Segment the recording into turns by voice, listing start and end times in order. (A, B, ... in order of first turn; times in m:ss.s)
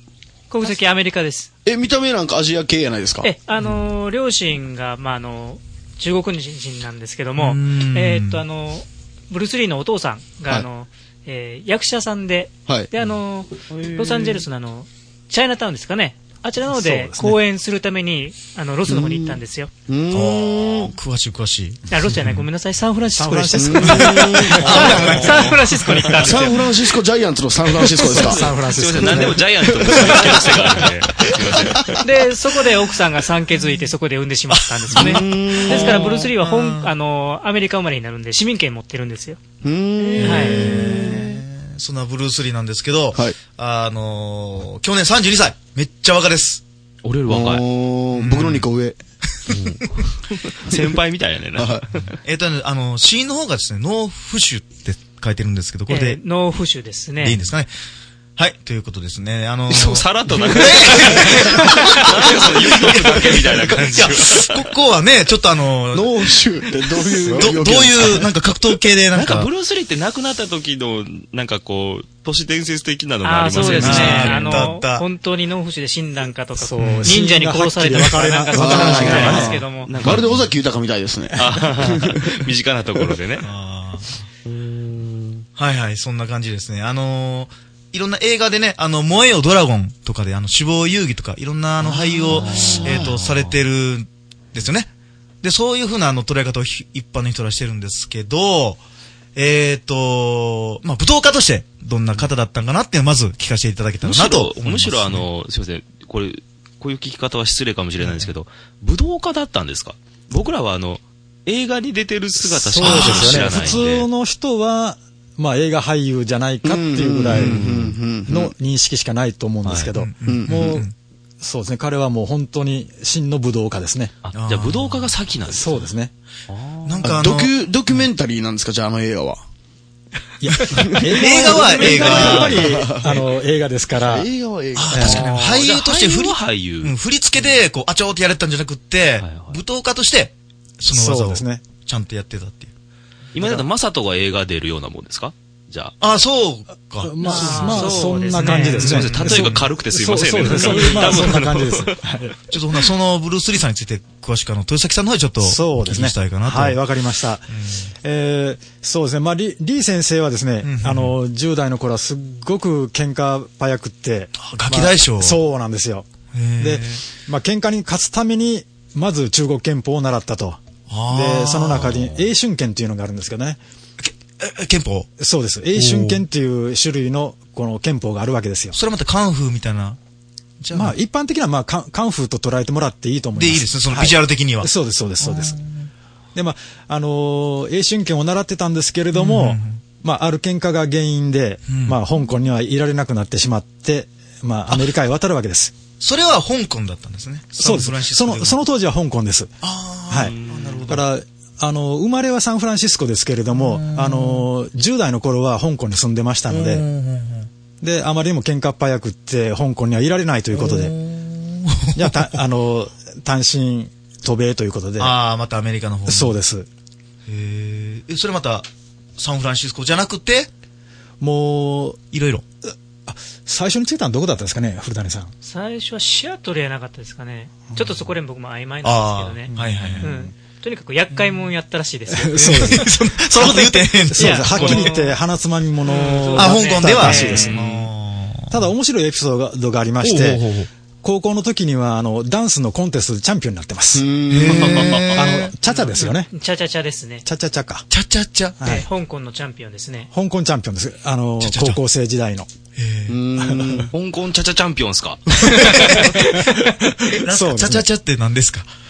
0:00.5-0:01.5 A
0:01.6-0:03.3 B
0:03.2-0:19.7 A
0:07.4-0:08.4 C
0:13.7-0:14.4 D
0:16.7-0:17.4 E
0:18.9-0:20.9 B
0:20.1-0:22.4 C
0:21.9-0:26.7 A
0:23.2-0:24.9 E
0:23.6-0:25.5 B
0:24.5-0:26.4 D
0:24.6-0:26.1 C
0:26.1-0:28.4 B
0:27.8-0:32.0 D
0:28.0-0:29.5 E
0:29.9-0:30.4 B
0:31.2-0:32.0 B
0:31.9-0:39.4 A
0:34.5-0:36.9 C
0:34.9-0:36.3 B
0:39.6-0:41.4 B
0:40.2-0:40.8 A
0:40.4-0:46.6 C
0:47.0-0:47.6 D
0:47.3-0:49.0 B
0:48.2-0:48.7 C
0:49.5-0:52.2 D
0:51.6-0:51.9 B
0:52.2-0:56.2 C
0:55.9-0:57.4 A
0:57.2-0:57.7 C
0:58.4-1:06.4 C
0:59.7-1:04.7 D
1:01.5-1:02.1 B
1:05.9-1:08.3 B
1:07.4-1:09.5 C
1:09.1-1:14.7 D
1:13.2-1:19.9 A
1:13.7-1:15.0 C
1:16.6-1:19.6 E
1:16.8-1:17.2 C
1:18.5-1:19.4 B
1:18.8-1:20.5 D
1:19.0-1:20.5 C
1:20.0-1:22.4 B
1:21.4-1:23.5 D
1:23.4-1:24.2 C
1:24.5-1:25.4 D
1:25.6-1:34.9 C
1:32.2-1:33.6 D
1:32.4-1:33.1 B
1:35.4-1:38.8 C
1:39.4-1:45.2 C
1:44.0-1:54.1 D
1:52.4-1:57.7 E
1:52.8-1:53.8 C
1:56.6-1:58.5 B
1:57.3-1:57.9 D
1:57.4-1:57.8 C
1:58.3-2:00.9 E
1:59.6-1:59.9 D
2:00.0-2:00.9 C
2:00.2-2:00.8 B
2:01.4-2:04.1 E
2:04.2-2:05.9 D
2:04.4-2:05.1 C
2:05.5-2:06.1 E
2:06.5-2:07.1 D
2:06.9-2:08.0 C
2:07.0-2:09.4 B
2:10.4-2:14.3 E
2:10.7-2:11.1 B
2:11.0-2:13.2 D
2:11.2-2:12.7 C
2:12.0-2:13.1 B
2:14.0-2:15.1 B
2:14.8-2:22.7 C
2:14.9-2:17.6 D
2:14.9-2:15.3 E
2:19.2-2:19.6 D
2:20.9-2:21.6 E
2:23.3-2:25.9 D
2:26.0-2:28.3 C
2:27.0-2:32.4 E
2:27.2-2:29.1 A
2:28.6-2:32.0 D
2:28.9-2:29.5 C
2:30.4-2:31.3 A
2:32.5-2:36.8 C
2:35.4-2:53.6 E
2:37.6-2:37.9 C
2:40.6-2:41.1 C
2:44.4-2:45.4 C
2:46.3-2:47.0 C
2:50.9-2:52.2 C
2:54.0-2:55.1 C
2:55.2-2:58.8 E
2:55.8-2:56.2 C
2:58.7-3:00.0 C
3:00.6-3:01.0 C
3:00.7-3:05.6 E
3:03.4-3:04.7 C
3:05.2-3:05.9 C
3:06.4-3:15.7 E
3:09.2-3:09.8 C
3:11.7-3:12.0 C
3:16.0-3:18.6 C
3:17.6-3:19.5 E
3:19.6-3:21.0 C
3:20.1-3:26.8 E
3:20.3-3:20.8 D
3:23.5-3:24.5 C
3:26.5-3:27.5 C
3:27.8-3:31.0 E
3:30.5-3:32.3 C
3:32.0-3:35.2 E
3:35.0-3:36.3 C
3:36.1-3:36.7 E
3:37.3-3:40.5 C
3:41.2-3:42.0 E
3:42.1-3:42.4 C
3:42.7-3:45.3 E
3:45.4-3:52.6 A
3:48.8-3:50.1 C
3:49.5-3:50.3 E
3:52.1-3:57.7 E
3:52.4-3:54.9 C
3:53.4-3:55.1 A
3:55.9-3:57.5 A
3:56.4-3:58.6 C
3:58.5-4:00.4 E
4:00.1-4:00.4 D
4:01.0-4:04.0 E
4:03.9-4:05.0 B
4:04.3-4:05.4 C
4:04.5-4:05.2 D
4:04.8-4:06.3 E
4:05.7-4:07.3 A
4:07.2-4:07.9 E
4:07.9-4:08.6 C
4:08.6-4:08.9 E
4:08.6-4:10.1 A
4:10.1-4:12.5 E
4:11.4-4:11.8 C
4:12.8-4:13.7 C
4:13.1-4:13.9 B
4:13.4-4:13.8 E
4:13.9-4:15.3 D
4:15.5-4:16.7 E
4:15.6-4:16.3 C
4:15.9-4:16.7 A
4:17.1-4:18.7 C
4:17.2-4:17.9 E